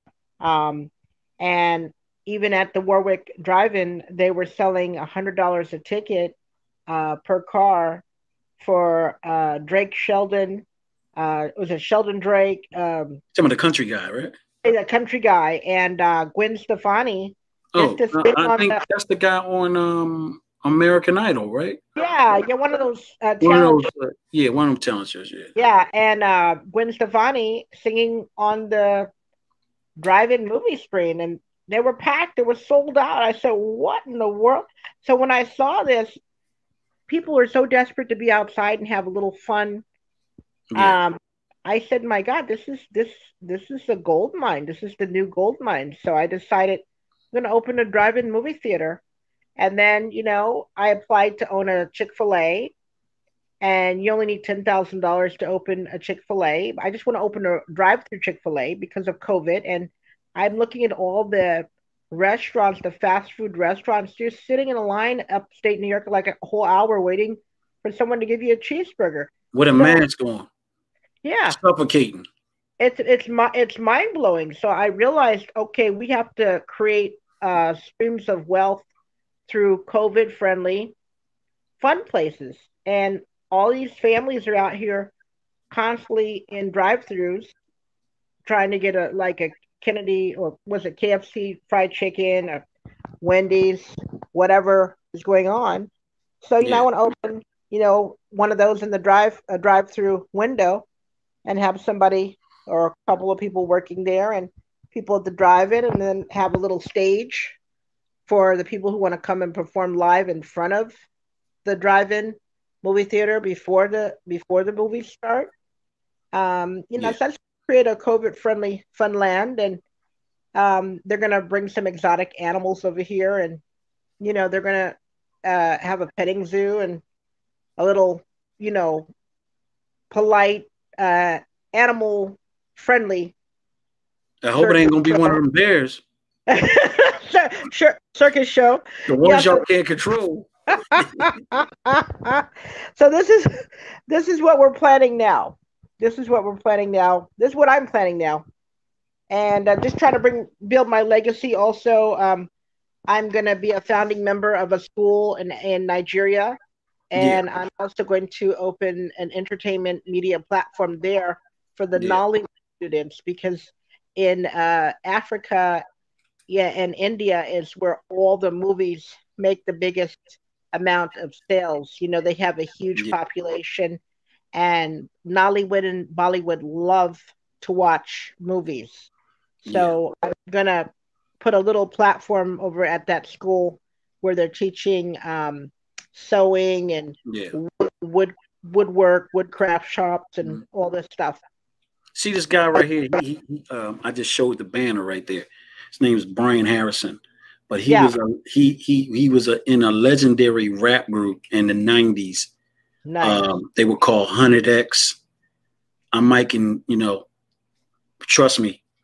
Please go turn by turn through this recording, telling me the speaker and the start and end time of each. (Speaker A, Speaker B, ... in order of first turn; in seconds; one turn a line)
Speaker A: 0.4-6.3
Speaker A: 6.9-8.0
Speaker A: 8.6-10.6
Speaker A: 11.2-13.2
Speaker B: 13.3-14.3
Speaker A: 14.6-18.8
Speaker B: 17.7-21.8
Speaker A: 21.9-23.9
Speaker B: 23.4-25.5
Speaker A: 25.6-29.1
Speaker A: 30.0-36.2
Speaker A: 37.1-39.8
Speaker B: 40.7-41.0
Speaker A: 40.8-49.0
Speaker A: 49.6-52.7
Speaker A: 53.6-70.0
Speaker B: 69.5-70.5
Speaker A: 71.2-71.6
Speaker B: 71.5-72.2
Speaker A: 72.8-78.9
Speaker A: 79.5-80.9
Speaker A: 81.8-85.1
Speaker A: 85.7-87.5
Speaker A: 88.4-92.6
Speaker A: 93.2-95.9
Speaker A: 96.4-100.8
Speaker B: 96.6-96.8
Speaker A: 101.4-107.6
Speaker A: 108.3-111.0
Speaker A: 111.6-115.5
Speaker A: 116.3-119.8
Speaker A: 120.5-123.6
Speaker A: 124.2-127.0
Speaker A: 127.8-129.1
Speaker A: 130.1-133.3
Speaker B: 134.4-136.0
Speaker A: 134.6-135.4
Speaker A: 136.5-139.6
Speaker B: 139.1-141.3
Speaker A: 140.9-148.4
Speaker A: 149.3-152.5
Speaker A: 153.1-156.6
Speaker A: 157.1-165.8
Speaker B: 157.2-157.4
Speaker B: 161.9-162.2
Speaker A: 166.5-174.0
Speaker A: 174.5-179.1
Speaker B: 179.6-180.0
Speaker A: 179.7-180.9
Speaker A: 181.4-191.4
Speaker B: 187.3-187.6
Speaker B: 192.2-202.5
Speaker A: 197.9-198.1
Speaker A: 203.1-203.5
Speaker B: 203.2-205.2
Speaker B: 206.1-207.3
Speaker B: 208.2-208.8